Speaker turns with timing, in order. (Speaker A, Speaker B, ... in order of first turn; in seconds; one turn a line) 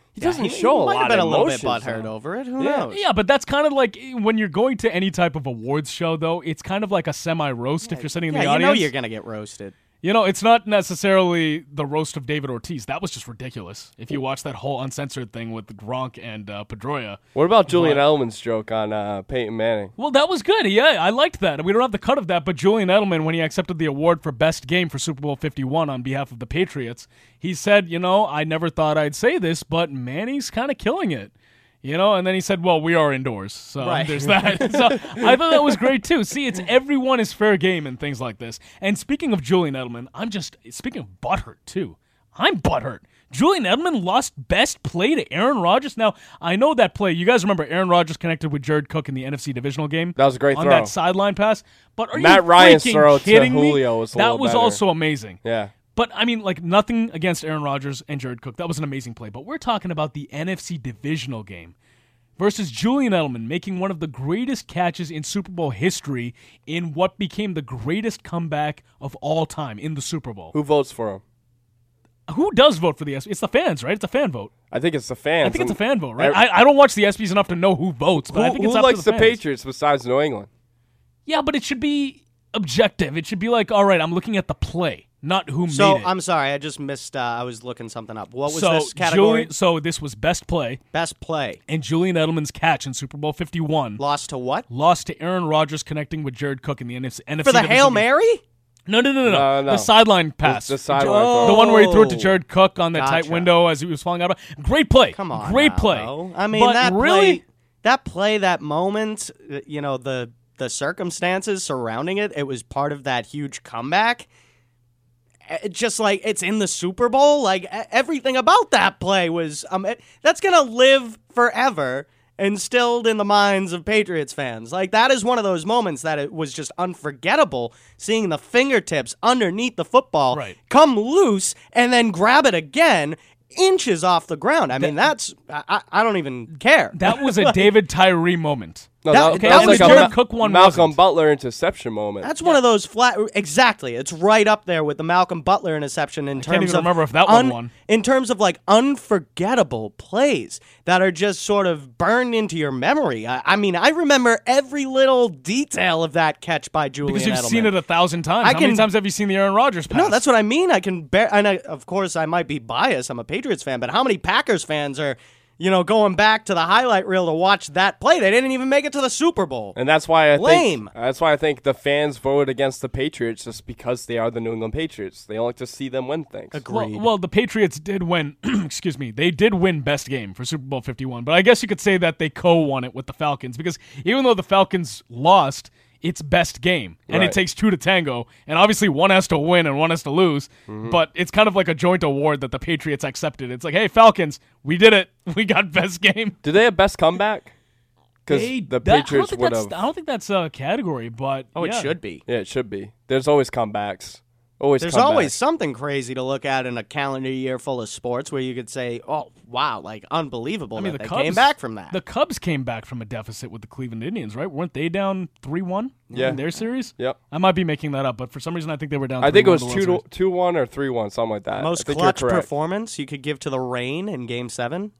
Speaker A: 0.1-2.9
Speaker B: 0.2-3.0
Speaker C: 2.9-8.9
Speaker B: 7.8-9.8
Speaker C: 10.0-18.1
Speaker A: 17.3-19.9
Speaker C: 20.0-31.3
Speaker C: 31.8-55.4
Speaker B: 33.8-34.8
Speaker A: 50.1-50.9
Speaker A: 52.1-54.8
Speaker A: 55.4-55.7
Speaker C: 55.9-61.7
Speaker C: 62.4-70.5
Speaker A: 70.5-71.2
Speaker C: 72.3-74.5
Speaker A: 74.7-76.4
Speaker C: 75.4-79.4
Speaker A: 78.3-80.5
Speaker C: 81.2-86.1
Speaker B: 85.7-89.5
Speaker C: 88.5-90.8
Speaker B: 90.9-91.6
Speaker C: 91.7-94.0
Speaker B: 94.0-94.7
Speaker C: 94.7-98.1
Speaker B: 97.4-98.4
Speaker C: 98.9-107.4
Speaker A: 99.2-99.9
Speaker A: 100.4-101.8
Speaker B: 100.9-102.4
Speaker B: 102.9-103.5
Speaker B: 105.1-114.3
Speaker B: 115.5-137.7
Speaker C: 130.3-130.5
Speaker C: 134.8-135.1
Speaker C: 136.9-141.0
Speaker A: 139.0-142.3
Speaker B: 139.1-140.1
Speaker B: 142.2-157.8
Speaker C: 146.3-147.7
Speaker C: 157.0-160.2
Speaker B: 158.4-158.9
Speaker B: 159.9-169.8
Speaker A: 169.7-176.6
Speaker B: 170.3-170.9
Speaker B: 176.5-177.1
Speaker C: 176.7-196.4
Speaker A: 187.1-187.4
Speaker A: 190.7-191.0
Speaker A: 196.4-197.5
Speaker A: 198.2-199.8
Speaker C: 198.3-201.9
Speaker B: 201.5-202.2
Speaker A: 202.3-205.4
Speaker B: 204.8-212.0
Speaker C: 210.7-220.0
Speaker B: 216.1-216.4
Speaker A: 216.1-216.4
Speaker A: 219.2-222.5
Speaker B: 221.6-224.9